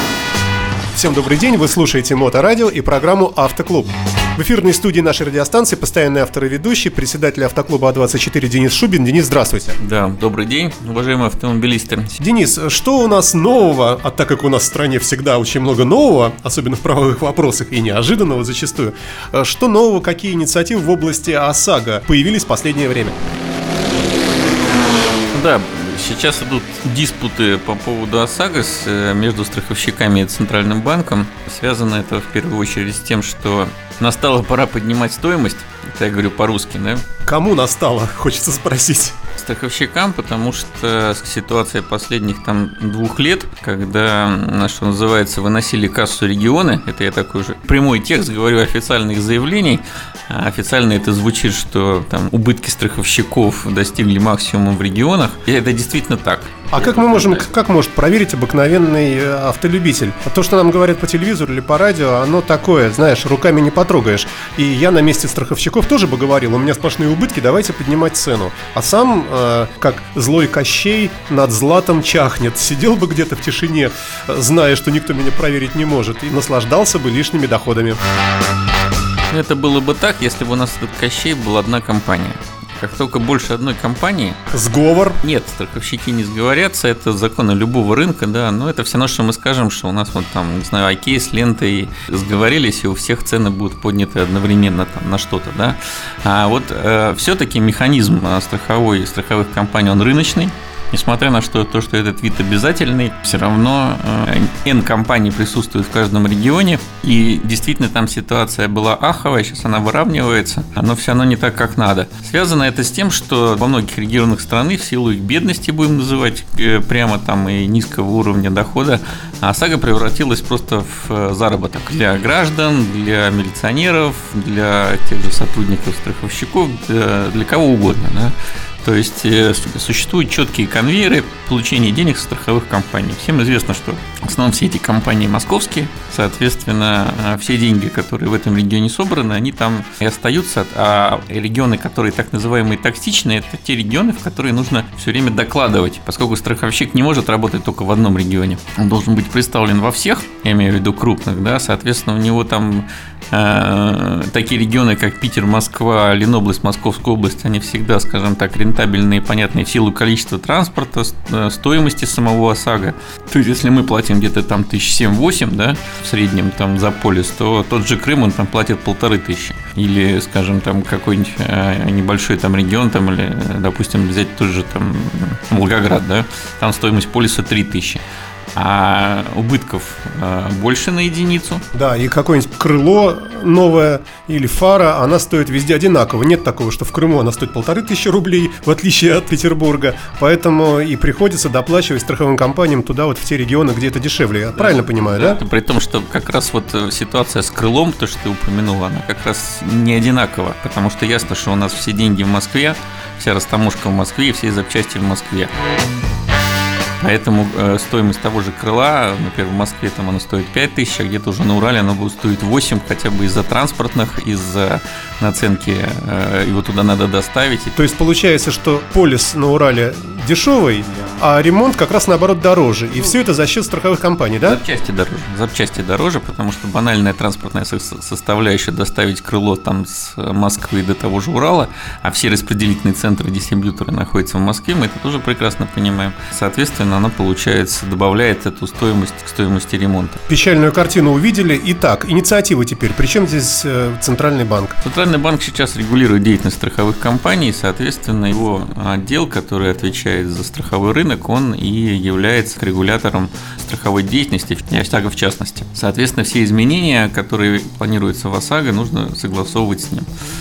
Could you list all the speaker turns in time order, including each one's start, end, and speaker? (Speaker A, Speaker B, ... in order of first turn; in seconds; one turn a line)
Speaker A: 0.9-9.8
Speaker B: 9.8-12.1
Speaker A: 12.2-23.1
Speaker B: 25.3-37.0
Speaker A: 37.2-39.1
Speaker B: 39.4-57.5
Speaker A: 56.7-78.0
Speaker B: 79.3-84.4
Speaker A: 84.5-85.2
Speaker B: 85.2-178.0
Speaker B: 178.5-181.6
Speaker A: 181.7-195.4
Speaker B: 194.6-205.5
Speaker B: 207.0-217.8
Speaker A: 217.8-224.6
Speaker B: 224.4-240.2
Speaker A: 240.3-244.7
Speaker B: 244.8-260.1